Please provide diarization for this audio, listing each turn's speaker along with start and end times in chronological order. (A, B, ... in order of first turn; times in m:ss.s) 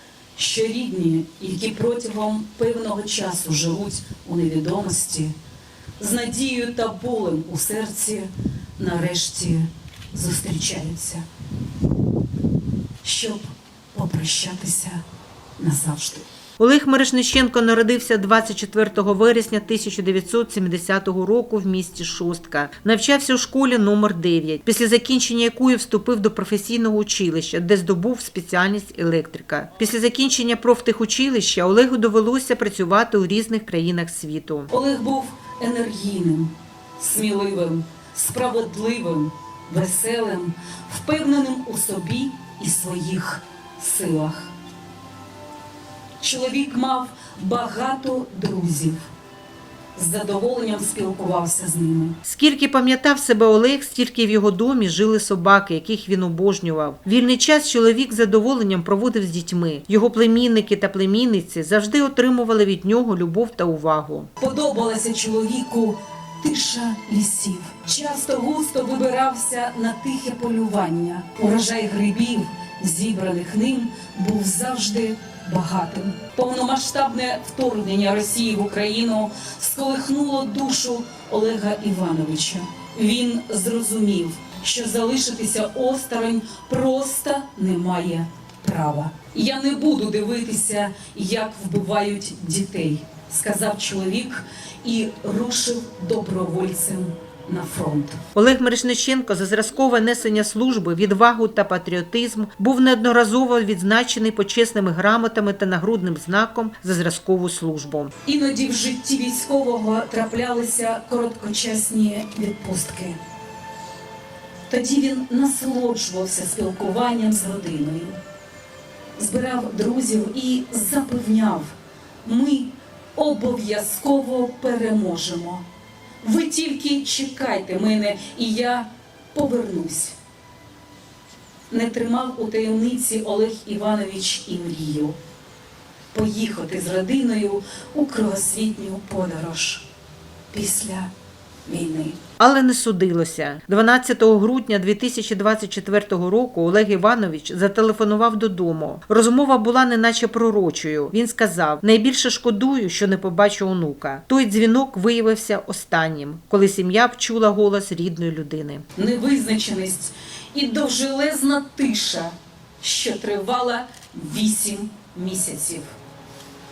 0:00.4-0:05.3 A
0:06.0-0:11.2 A
0:13.0-0:15.0 A
0:15.6-0:16.3 A
0:16.6-0:34.7 B
0:34.7-0:44.5 A
0:46.2-0:49.0 A
0:50.0-0:52.2 A
0:52.2-1:04.3 B
1:04.4-1:38.2 A
1:38.3-1:48.1 B
1:48.2-1:53.2 A
1:54.7-1:58.2 A
1:59.2-2:05.6 A
2:06.2-2:10.2 A
2:11.7-2:15.2 A
2:16.1-2:19.8 A
2:20.5-2:21.1 A
2:21.7-2:22.2 A
2:22.4-2:38.8 B
2:39.0-2:45.9 A